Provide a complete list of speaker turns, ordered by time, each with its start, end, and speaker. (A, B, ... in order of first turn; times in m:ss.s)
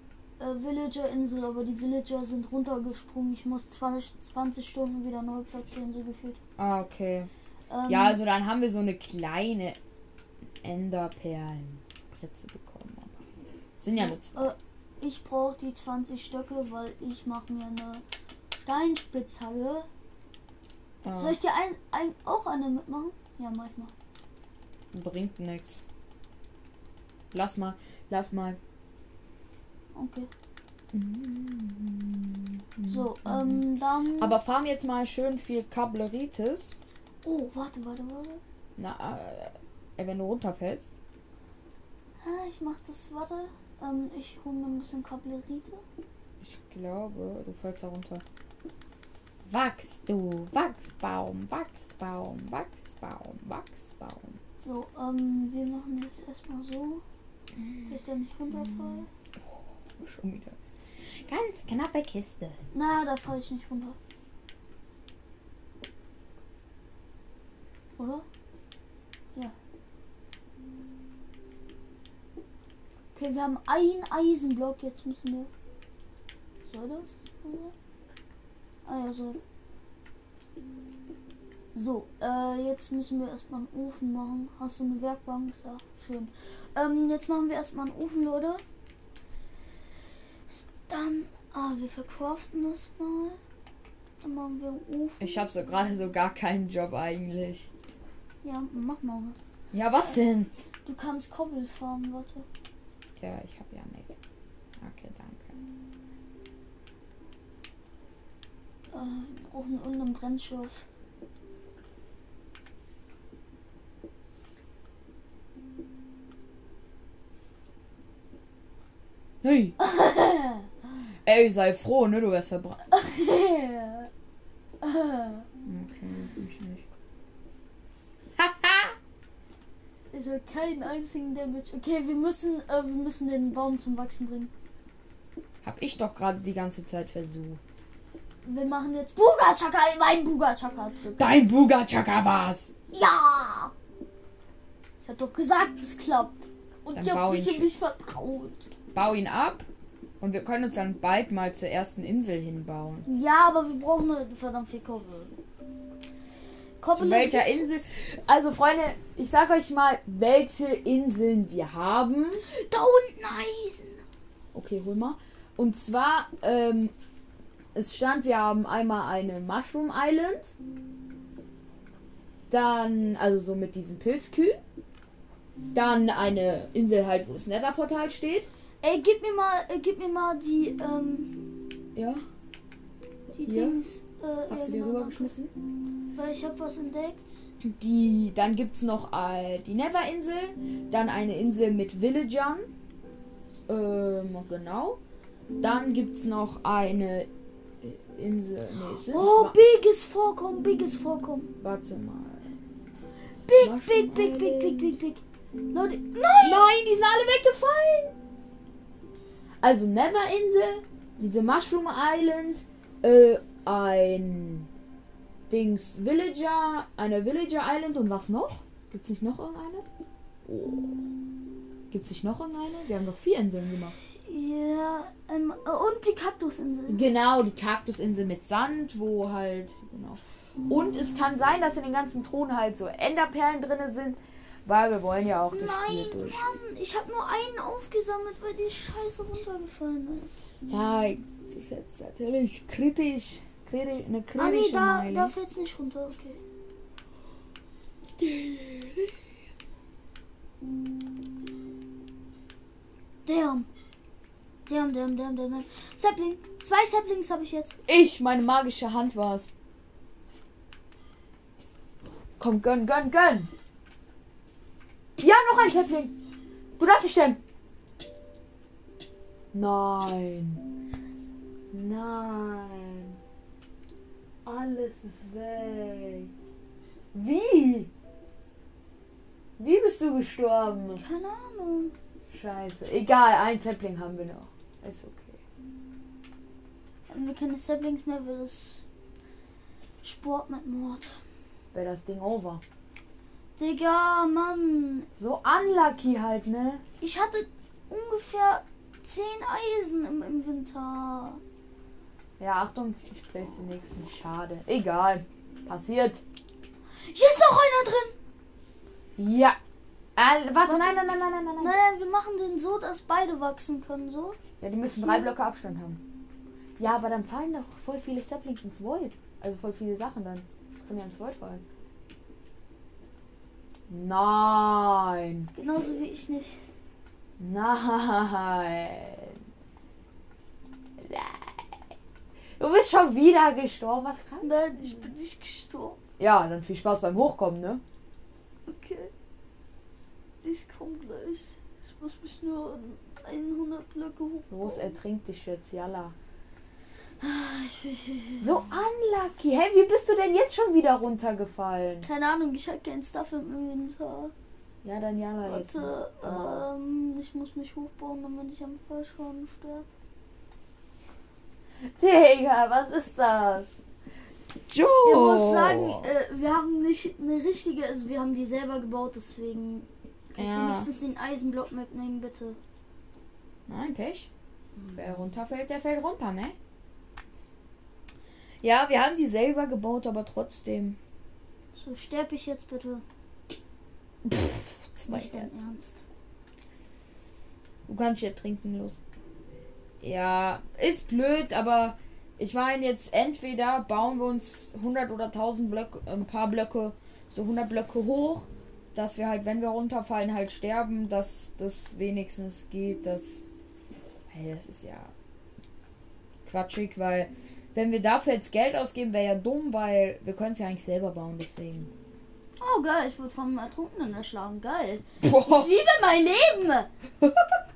0:00.4-0:06.4 A
0:06.6-0:07.3 B
0:07.7-0:08.2 A
0:07.9-0:09.8 B
0:10.6-0:13.3 B
0:13.8-0:14.5 B
0:13.9-0:18.0 A
0:18.6-0:19.9 A
0:21.0-0:21.4 B
0:21.2-0:23.9 A
0:24.9-0:25.8 B
0:27.3-0:28.6 B
0:29.9-0:30.3 A
0:30.9-0:33.6 B
0:32.9-0:34.4 A
0:34.2-0:36.8 B
0:37.2-0:38.4 A
0:38.8-0:40.9 B
0:42.2-0:45.8 A
0:46.4-0:48.2 B
0:49.4-0:54.4 B
0:54.6-0:57.0 A
0:57.6-0:57.9 B
0:57.9-0:59.1 A
0:58.5-1:00.6 B
1:01.2-1:02.6 B
1:02.7-1:04.0 A
1:08.0-1:08.2 A
1:13.1-1:15.5 A
1:16.6-1:17.7 A
1:18.8-1:19.4 A
1:21.7-1:28.6 A
1:30.5-1:33.4 A
1:34.2-1:35.4 A
1:35.2-1:37.7 B
1:38.4-1:39.4 A
1:39.7-1:40.5 B
1:40.8-1:42.4 A
1:43.2-1:44.2 B
1:44.8-1:45.6 B
1:48.9-1:50.8 A
1:59.4-1:59.8 B
1:59.8-2:00.7 A
2:01.2-2:02.8 B
2:02.9-2:04.1 A
2:04.8-2:05.4 A
2:05.6-2:06.8 B
2:08.4-2:09.0 B
2:10.1-2:14.5 A
2:15.6-2:17.6 B
2:18.4-2:21.4 A
2:21.0-2:22.7 B
2:22.9-2:23.7 A
2:25.0-2:28.7 A
2:26.9-2:27.7 B
2:28.9-2:29.6 B
2:30.2-2:33.0 B
2:33.0-2:35.3 A
2:36.8-2:37.8 A
2:36.9-2:42.4 B
2:42.5-2:44.0 A
2:44.5-2:46.9 B
2:47.7-2:50.5 B
2:52.5-2:54.6 B
2:55.7-2:58.5 B
2:58.8-3:01.6 A
3:01.9-3:02.2 B
3:03.3-3:05.3 A
3:03.4-3:03.8 B
3:04.5-3:05.5 B
3:06.2-3:07.5 A
3:07.6-3:12.7 B
3:13.7-3:15.0 B
3:15.6-3:17.3 B
3:17.8-3:19.6 B
3:19.0-3:21.5 A
3:21.6-3:22.5 B
3:23.4-3:26.7 A
3:23.6-3:25.0 B
3:26.4-3:28.1 B
3:29.6-3:34.7 B
3:35.5-3:39.8 B
3:40.4-3:41.0 B
3:41.9-3:43.9 B
3:44.2-3:47.0 A
3:46.9-3:56.5 B
3:55.5-4:00.5 A
4:00.7-4:05.3 B
4:04.4-4:06.4 A
4:08.2-4:09.1 B
4:13.2-4:13.7 A
4:14.7-4:17.8 A
4:17.9-4:19.5 B
4:22.4-4:23.5 B
4:25.2-4:26.1 B
4:26.8-4:27.4 B
4:29.5-4:30.6 B
4:31.7-4:33.2 B
4:34.4-4:36.3 B
4:37.1-4:37.9 B
4:39.6-4:41.0 B
4:41.0-4:41.9 A
4:42.3-4:45.4 B
4:47.1-4:48.8 A
4:50.0-4:51.2 A
4:51.7-4:52.6 B
4:53.6-4:55.1 A
4:55.2-4:56.8 B
4:57.0-5:01.4 A
5:02.4-5:06.2 B
5:07.0-5:08.1 A
5:09.2-5:09.6 B
5:10.2-5:11.8 B
5:10.6-5:11.0 A
5:11.6-5:14.4 A
5:14.6-5:16.0 B
5:16.8-5:21.6 B
5:23.9-5:25.5 B
5:25.5-5:26.6 A
5:27.4-5:29.4 B
5:31.0-5:31.8 B
5:32.6-5:35.1 B
5:34.4-5:36.0 A
5:36.2-5:37.8 B
5:38.7-5:39.1 A
5:40.4-5:44.9 A
5:44.5-5:46.1 B
5:47.2-5:48.7 A
5:48.4-5:52.1 B
5:52.0-5:54.3 A
5:54.8-5:56.6 B
5:55.4-5:59.8 A
6:01.8-6:03.8 B
6:04.7-6:06.1 B
6:05.0-6:12.6 A
6:10.4-6:10.9 B
6:13.7-6:14.3 B
6:14.8-6:16.6 B
6:18.6-6:21.0 B
6:21.7-6:23.0 A
6:24.2-6:25.6 B
6:25.1-6:26.0 A
6:27.9-6:29.0 B
6:30.0-6:43.4 B
6:44.3-6:45.1 B
6:46.4-6:51.9 B
6:52.6-6:56.9 A
6:55.2-6:55.8 B
6:57.2-6:57.6 B